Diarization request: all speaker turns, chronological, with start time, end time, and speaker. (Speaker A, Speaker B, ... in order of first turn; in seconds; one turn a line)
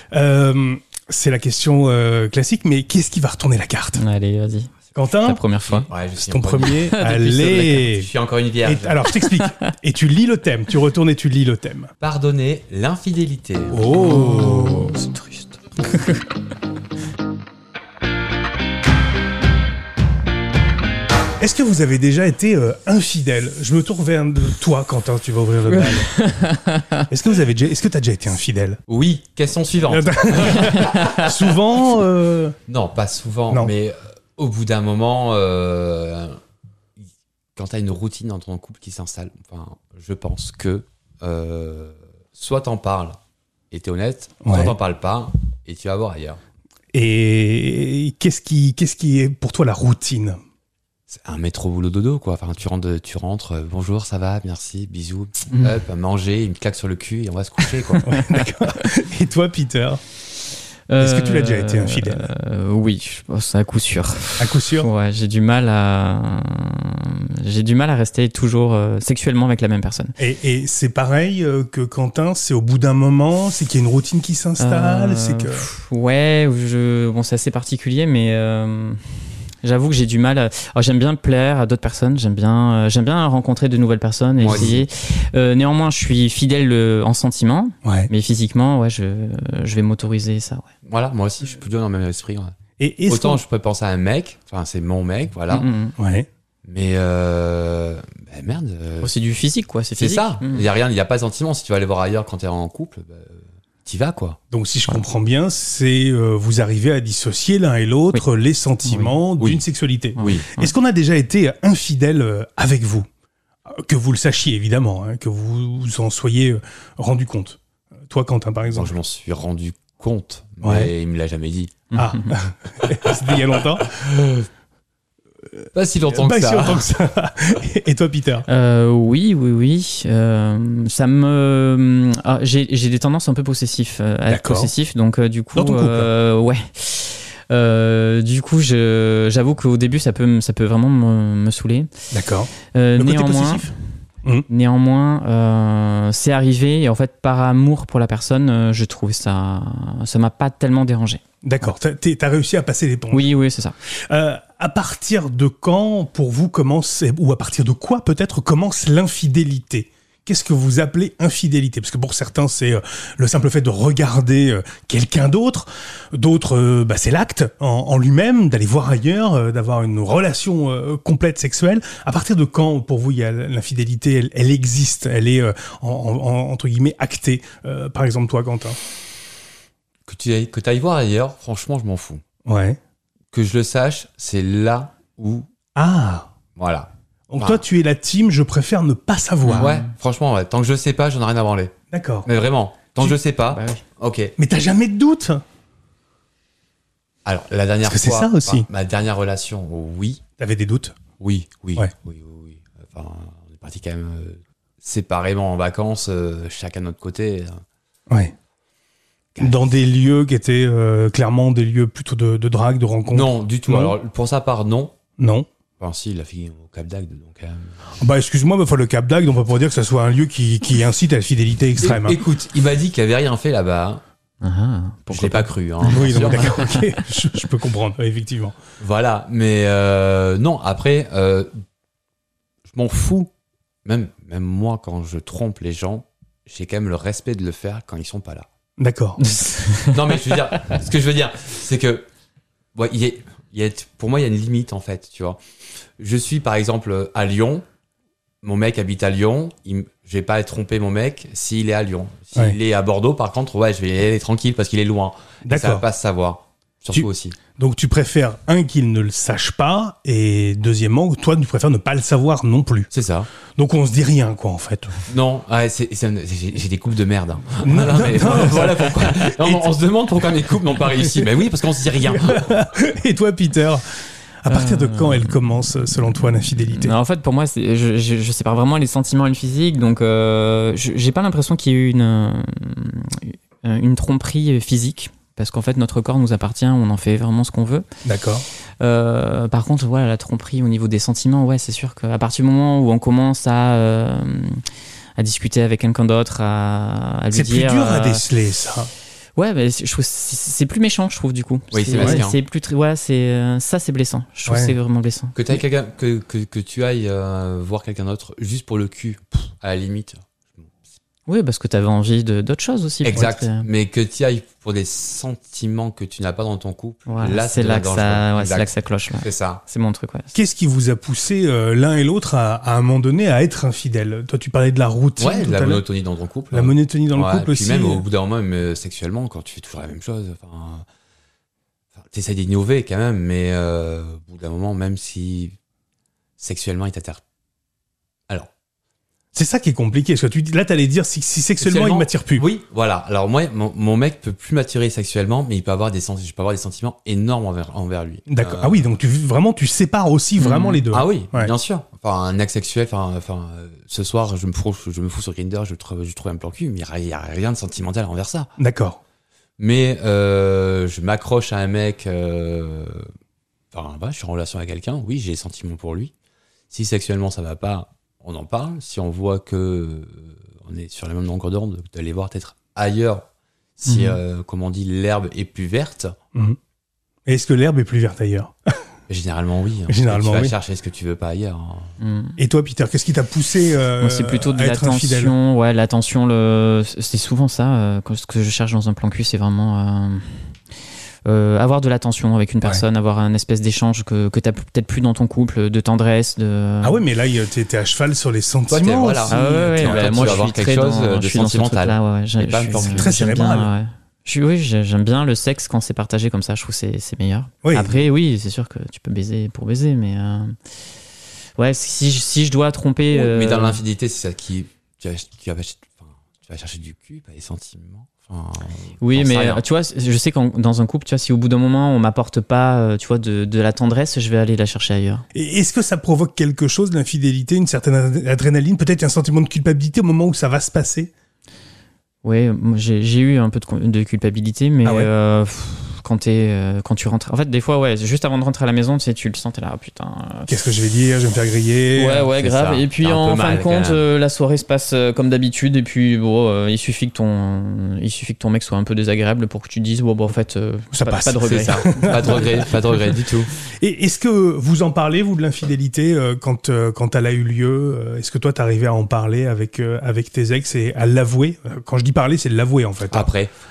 Speaker A: 0.1-4.0
Speaker B: 4.0-5.9
Speaker A: 4.9-5.4
Speaker C: 5.7-6.8
Speaker A: 6.2-8.1
Speaker B: 6.7-7.9
Speaker C: 7.8-9.0
Speaker A: 8.6-11.9
Speaker B: 9.1-9.5
Speaker C: 12.0-13.9
Speaker A: 13.7-15.0
Speaker B: 13.9-16.2
Speaker A: 21.4-26.1
Speaker B: 25.8-27.1
Speaker A: 27.1-28.8
Speaker C: 28.9-31.0
Speaker A: 29.9-32.5
Speaker B: 30.6-31.3
Speaker C: 32.7-36.4
Speaker C: 37.5-43.2
Speaker C: 43.7-46.4
Speaker A: 44.4-44.7
Speaker A: 46.9-50.4
Speaker C: 51.1-58.1
Speaker A: 58.0-60.0
Speaker B: 60.9-70.2
Speaker A: 61.0-62.3
Speaker A: 64.4-64.9
Speaker A: 70.2-75.7
Speaker B: 74.6-79.0
Speaker B: 79.6-90.7
Speaker C: 84.4-84.8
Speaker A: 84.5-84.8
Speaker A: 87.8-88.1
Speaker C: 90.8-92.5
Speaker A: 92.8-93.4
Speaker C: 93.1-95.7
Speaker B: 95.5-96.0
Speaker A: 96.0-96.3
Speaker C: 96.7-99.1
Speaker B: 99.0-100.7
Speaker C: 100.0-104.4
Speaker A: 104.5-113.1
Speaker B: 108.8-109.2
Speaker B: 110.2-110.7
Speaker C: 110.2-110.5
Speaker A: 113.7-117.6
Speaker A: 118.1-118.9
Speaker C: 118.7-121.9
Speaker A: 120.6-120.9
Speaker B: 121.9-122.3
Speaker A: 121.9-123.9
Speaker C: 122.8-124.5
Speaker C: 125.7-126.9
Speaker A: 126.1-128.4
Speaker B: 128.5-141.9
Speaker A: 134.3-134.7
Speaker A: 135.6-136.1
Speaker A: 142.1-143.7
Speaker B: 142.7-143.7
Speaker B: 144.5-151.2
Speaker A: 151.4-153.3
Speaker B: 153.1-153.8
Speaker A: 154.1-178.8
Speaker C: 180.1-182.2
Speaker A: 182.4-182.8
Speaker C: 183.3-185.5
Speaker A: 185.8-186.3
Speaker C: 186.6-187.6
Speaker A: 187.3-189.7
Speaker B: 189.4-189.9
Speaker C: 189.6-191.7
Speaker A: 191.9-192.3
Speaker C: 192.2-194.3
Speaker B: 193.5-193.8
Speaker A: 194.4-195.4
Speaker C: 197.2-200.2
Speaker A: 197.8-198.7
Speaker A: 200.4-200.9
Speaker C: 201.2-207.6
Speaker C: 209.3-209.7
Speaker A: 209.4-213.9
Speaker C: 213.1-214.9
Speaker A: 215.2-215.5
Speaker C: 215.8-217.8
Speaker A: 218.0-222.2
Speaker C: 221.8-224.0
Speaker B: 224.4-226.9
Speaker C: 225.1-226.6
Speaker A: 225.9-228.6
Speaker C: 228.8-231.5
Speaker C: 232.7-233.3
Speaker C: 233.8-238.5
Speaker A: 238.8-239.2
Speaker B: 239.2-240.4
Speaker C: 239.9-242.1
Speaker C: 242.7-245.4
Speaker C: 246.0-247.6
Speaker C: 248.4-257.4
Speaker A: 255.4-255.8
Speaker A: 256.9-262.9
Speaker C: 262.9-263.3
Speaker A: 263.6-264.9
Speaker C: 265.1-272.6
Speaker A: 267.6-269.7
Speaker A: 272.1-273.8
Speaker A: 274.4-276.9
Speaker B: 274.5-275.4
Speaker B: 276.7-287.9
Speaker A: 288.1-288.4
Speaker B: 288.8-294.6
Speaker B: 295.2-298.2
Speaker A: 297.3-298.9
Speaker B: 299.4-305.4
Speaker C: 301.7-302.4
Speaker A: 304.5-304.7
Speaker C: 305.3-310.8
Speaker B: 311.3-313.7
Speaker C: 313.0-319.6
Speaker B: 317.1-320.3
Speaker A: 320.3-325.8
Speaker C: 325.2-330.9
Speaker A: 326.5-328.0
Speaker C: 331.9-335.6
Speaker C: 336.4-337.2
Speaker A: 339.3-342.4
Speaker C: 341.6-348.8
Speaker A: 348.3-351.5
Speaker B: 350.4-350.8
Speaker C: 350.9-358.5
Speaker A: 358.6-359.0
Speaker C: 359.6-363.1
Speaker C: 363.7-366.1
Speaker C: 366.7-373.2
Speaker C: 373.8-376.1
Speaker B: 373.9-374.2
Speaker A: 377.3-378.5
Speaker C: 379.1-381.9
Speaker A: 379.9-380.5
Speaker B: 382.0-382.4
Speaker A: 382.4-385.3
Speaker B: 384.0-390.6
Speaker B: 391.2-397.0
Speaker A: 396.8-400.4
Speaker C: 398.7-403.1
Speaker B: 399.3-410.6
Speaker A: 402.8-403.7
Speaker A: 407.6-407.9
Speaker B: 411.6-413.8
Speaker C: 413.1-419.6
Speaker B: 419.0-425.2
Speaker A: 425.3-431.1
Speaker B: 432.2-440.6
Speaker A: 434.8-435.1
Speaker A: 440.5-442.3
Speaker B: 441.9-452.6
Speaker C: 442.4-444.0
Speaker A: 450.9-452.7
Speaker C: 451.4-453.5
Speaker A: 453.8-463.3
Speaker C: 463.1-463.5